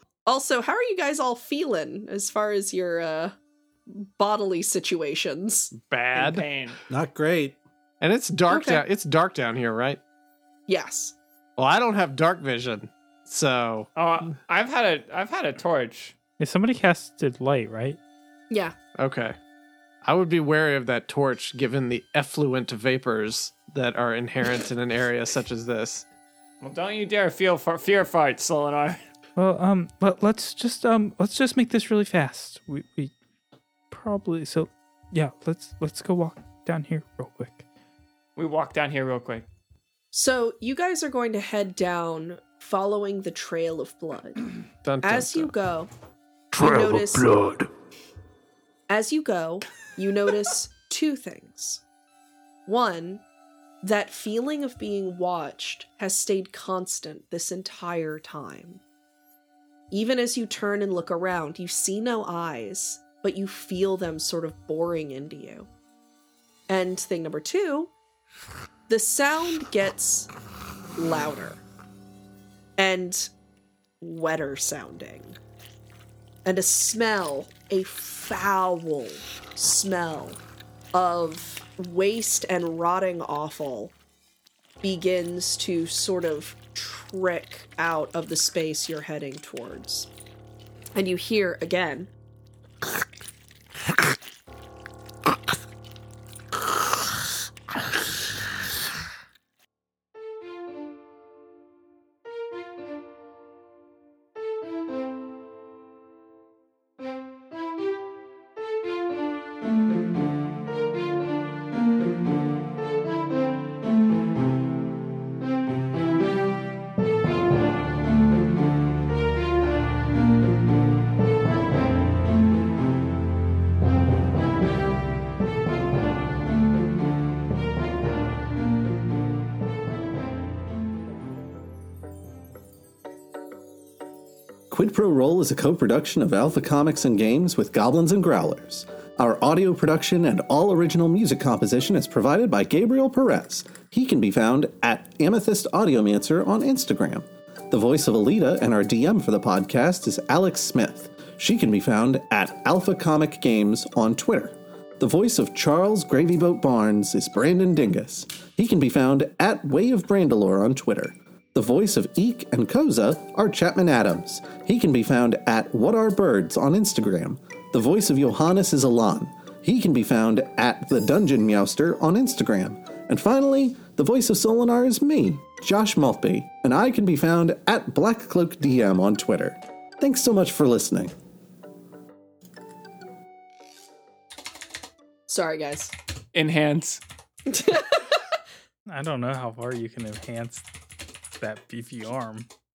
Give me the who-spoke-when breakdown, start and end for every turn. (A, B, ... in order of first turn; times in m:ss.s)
0:00.2-0:03.3 A
0:03.9-0:05.7 A
0:05.8-0:06.4 B
0:06.1-0:06.8 C
0:06.9-0:07.6 D
0:08.0-0:10.0 B
0:08.5-0:08.8 A
0:10.7-0:11.1 A
0:11.6-0:13.9 B
0:14.0-0:16.2 C
0:16.4-0:18.0 E
0:19.0-0:19.4 B
0:20.0-0:26.0 B
0:26.6-0:29.0 C
0:29.4-0:33.1 E
0:33.9-0:37.6 E
0:38.4-0:39.4 C
0:40.1-0:44.5 A
0:44.8-0:45.5 B
0:45.0-0:45.9 A
0:46.6-0:47.4 A
0:46.6-0:47.7 D
0:48.9-0:51.8 A
0:52.6-0:53.2 A
0:53.8-0:58.8 A
0:59.9-1:05.7 A
1:06.7-1:07.9 A
1:08.9-1:10.3 A
1:11.0-1:11.6 A
1:12.8-1:13.3 A
1:14.0-1:15.4 A
1:16.4-1:20.4 A
1:20.9-1:23.9 A
1:24.8-1:30.1 A
1:30.9-1:32.1 A
2:14.7-3:01.1 D
3:05.3-3:05.9 A
3:06.3-3:07.0 C
3:07.5-3:08.1 A
3:08.9-3:10.7 E
3:11.4-3:12.5 E